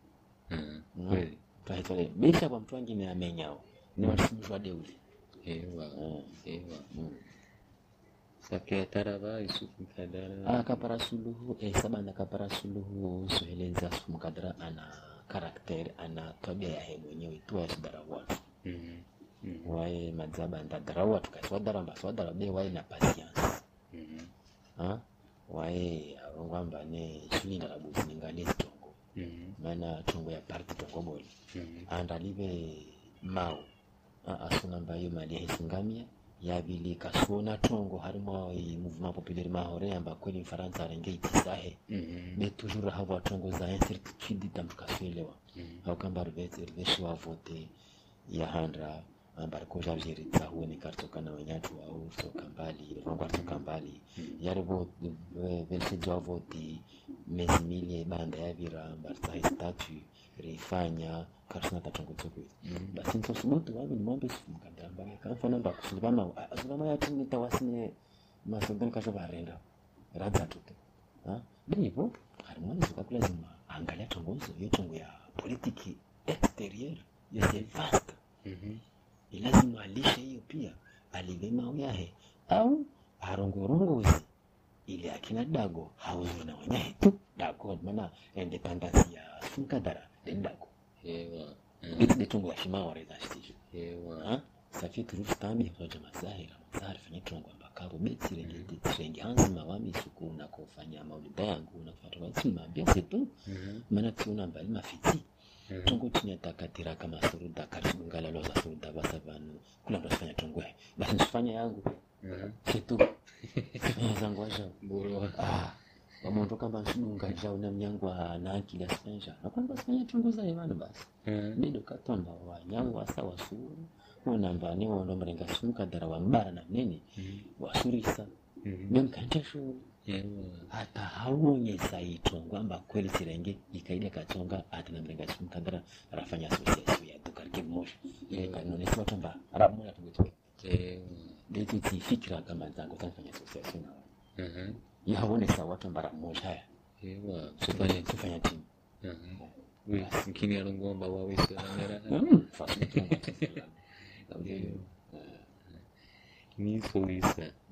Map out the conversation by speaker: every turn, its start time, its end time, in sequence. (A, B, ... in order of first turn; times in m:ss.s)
0:00.5-0:01.4 A
0:01.0-0:05.0 B
0:05.4-0:06.9 A
0:05.9-0:06.4 B
0:06.9-0:07.2 B
0:08.4-0:10.9 A
0:10.4-0:18.4 B
0:18.6-0:19.8 A
0:19.6-0:23.6 B
0:23.9-0:24.3 A
0:24.8-0:29.0 B
0:29.2-0:29.6 A
0:29.6-0:31.3 B
0:31.5-0:31.9 A
0:31.9-0:33.7 B
0:34.2-0:41.8 B
0:41.9-0:42.4 A
0:42.4-0:47.7 B
0:45.6-0:45.8 A
0:48.3-1:18.2 B
1:02.6-1:03.0 A
1:18.4-1:18.8 A
1:19.3-1:24.3 B
1:24.9-1:30.7 B
1:31.0-1:32.2 A
1:32.0-1:33.6 B
1:33.7-1:34.3 A
1:34.2-1:43.4 B
1:38.4-1:38.7 A
1:43.5-1:43.8 A
1:43.9-1:45.2 B
1:45.7-1:46.0 A
1:45.8-1:52.0 B
1:52.2-1:52.6 A
1:52.6-1:53.2 B
1:53.4-1:54.0 A
1:53.8-1:54.8 B
1:54.8-1:55.6 A
1:55.3-2:08.3 B
2:01.3-2:01.6 A
2:07.2-2:07.5 A
2:08.6-2:09.0 A
2:08.9-2:09.9 B
2:10.0-2:10.7 A
2:10.7-2:20.4 B
2:18.3-2:18.7 A
2:20.6-2:21.4 A
2:21.5-2:24.1 B
2:24.4-2:24.8 A
2:25.0-2:26.7 B
2:27.0-2:28.2 A
2:27.6-2:28.7 B
2:29.0-2:33.6 A
2:29.4-2:30.2 B
2:31.6-2:35.5 B
2:34.4-2:34.8 A
2:36.6-2:37.6 A